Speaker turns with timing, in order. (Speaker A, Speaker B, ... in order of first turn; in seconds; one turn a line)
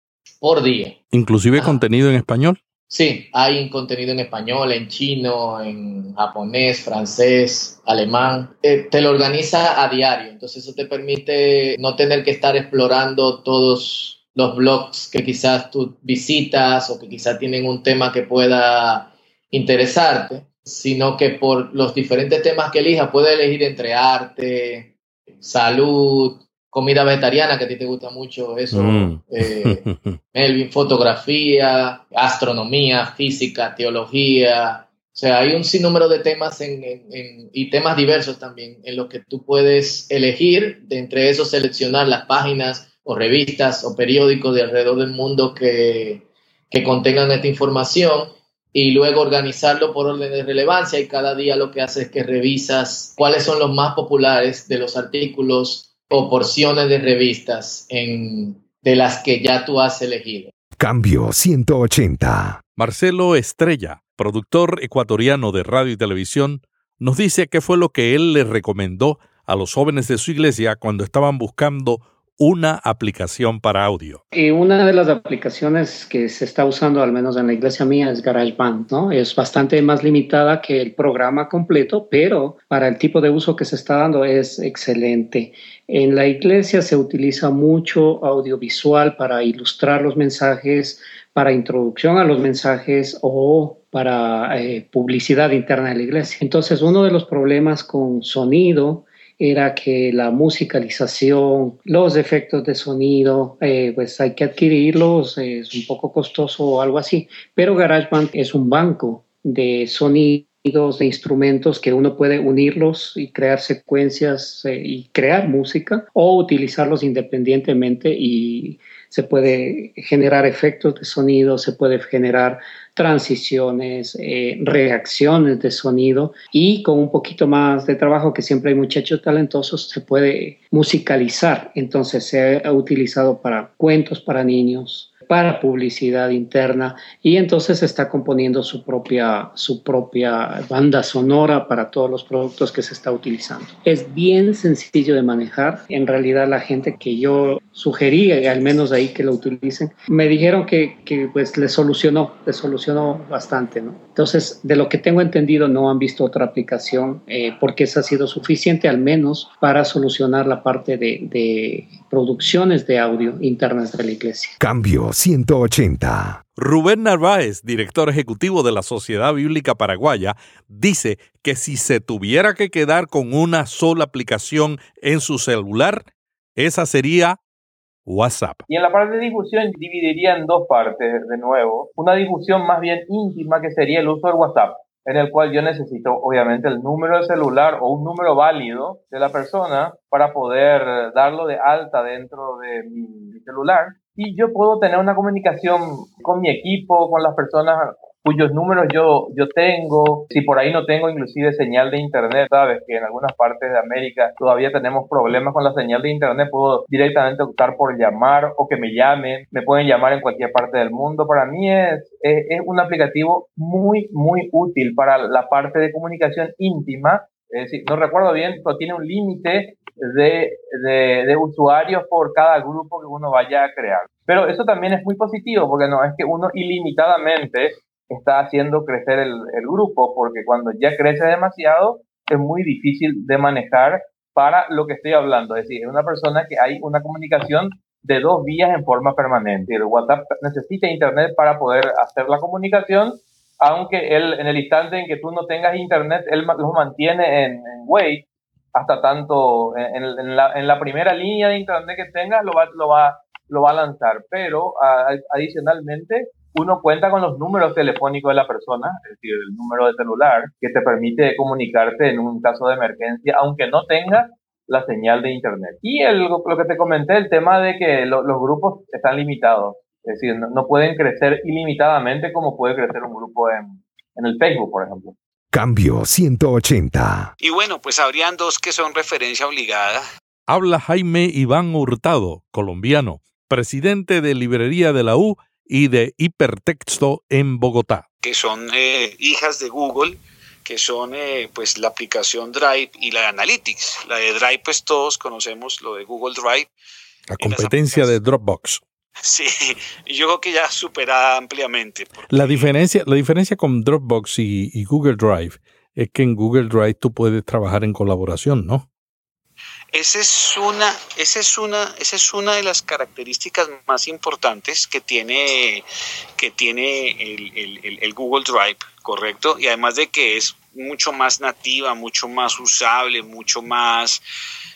Speaker A: 0.4-1.0
Speaker B: 1.1-2.6
Speaker A: 2.9-60.5
Speaker B: 28.7-30.2
Speaker C: 60.8-62.6
Speaker B: 62.8-74.2
Speaker D: 74.3-164.6
Speaker C: 164.6-166.4
Speaker B: 166.6-177.4
Speaker B: 178.1-178.6
Speaker E: 178.7-275.1
Speaker C: 275.5-277.3
Speaker F: 277.4-280.0
Speaker B: 280.5-288.1
Speaker F: 288.2-296.7
Speaker B: 297.3-298.8
Speaker F: 297.4-298.2
Speaker F: 299.2-302.7
Speaker B: 302.3-308.9
Speaker F: 309.9-315.8
Speaker F: 316.4-324.2